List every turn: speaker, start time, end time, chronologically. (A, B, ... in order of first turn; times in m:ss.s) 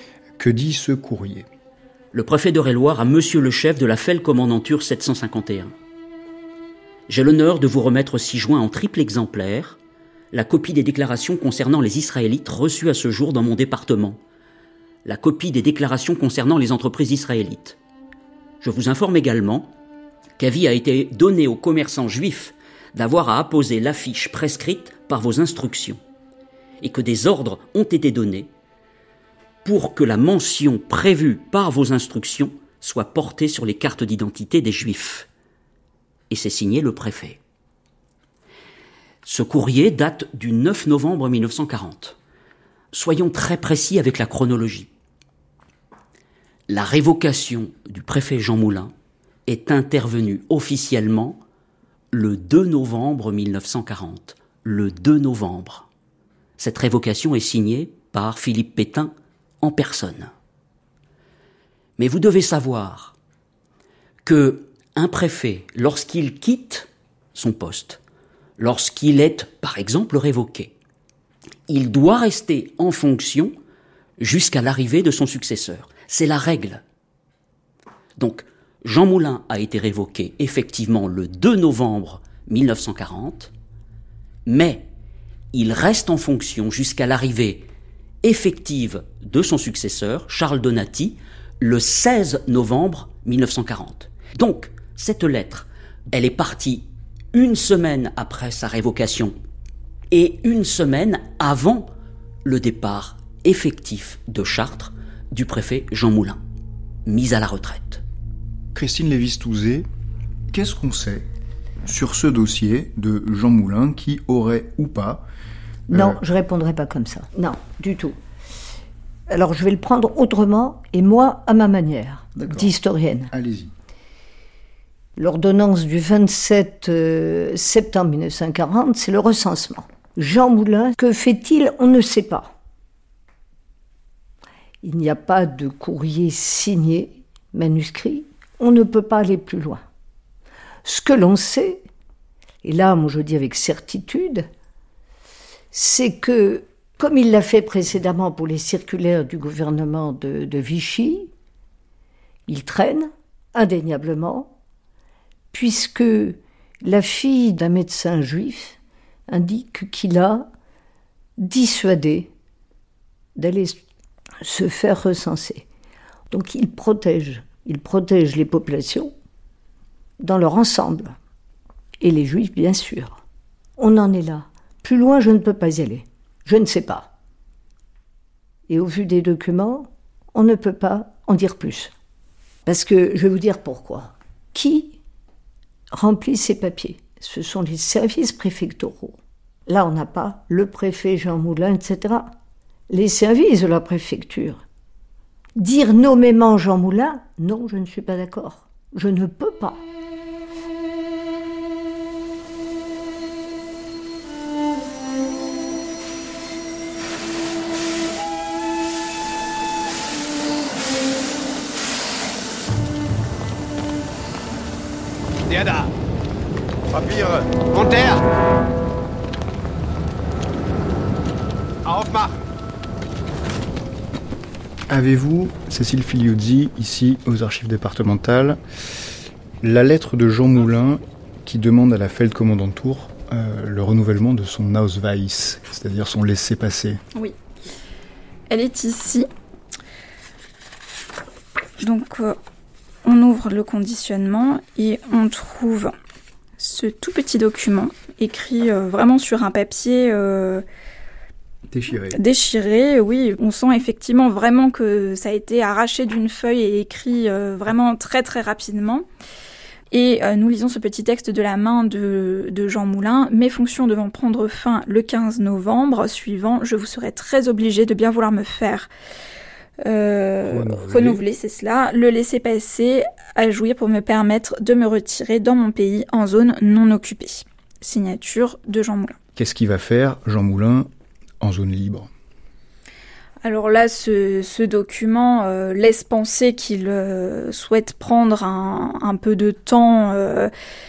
0:00.4-0:01.5 A
0:02.1-0:05.7 B
0:07.1-0:09.8 B
0:10.3-0:14.2 B
0:15.0-0:17.8 B
0:18.6-0:19.7 B
0:20.4-0:26.0 B
0:26.8-0:28.5 B
0:29.6-0:35.3 B
0:36.3-0:37.4 B
0:39.2-0:42.2 B
0:42.9-0:44.9 B
0:46.7-0:48.9 B
0:49.5-0:51.4 B
0:52.1-0:55.9 B
0:56.6-1:00.3 B
1:02.0-1:03.1 B
1:04.2-1:08.0 B
1:08.6-1:10.7 B
1:11.7-1:13.5 B
1:14.2-1:16.8 B
1:18.2-1:23.5 B
1:24.5-1:24.9 B
1:25.5-1:27.7 B
1:28.2-1:39.4 B
1:40.1-1:41.9 B
1:42.4-1:46.4 B
1:47.1-1:48.0 B
1:48.7-1:49.9 A
1:50.5-1:51.3 A
1:51.8-1:55.2 A
1:55.9-1:56.2 A
1:55.9-1:58.2 C
1:59.3-2:03.3 C
2:02.4-2:02.7 A
2:03.3-2:03.7 A
2:05.2-2:12.5 C
2:14.8-2:19.8 C
2:20.8-2:21.8 C
2:22.6-2:24.5 C
2:25.7-2:31.3 C
2:32.5-2:34.5 C
2:35.5-2:38.8 C
2:39.3-2:40.5 C
2:41.4-2:42.3 C
2:43.4-2:43.8 C
2:44.4-2:45.6 C
2:46.3-2:49.1 C
2:50.2-2:51.2 C
2:52.0-2:53.2 C
2:53.8-2:57.1 C
2:58.7-3:01.9 C
3:02.7-3:05.0 C
3:05.9-3:09.2 C
3:09.7-3:12.3 C
3:12.9-3:14.6 C
3:15.6-3:19.8 C
3:35.5-3:35.9 D
3:36.9-3:38.2 D
3:41.9-3:42.4 D
3:44.9-3:48.6 A
3:49.6-3:57.0 A
3:58.5-3:59.3 E
4:01.8-4:02.4 E
4:03.0-4:05.9 E
4:06.6-4:10.6 E
4:11.7-4:12.2 A
4:12.1-4:19.1 E
4:19.9-4:28.9 E
4:29.8-4:39.2 E
4:30.5-4:31.2 A
4:39.4-4:40.9 A
4:41.4-4:42.1 A
4:43.4-4:50.5 E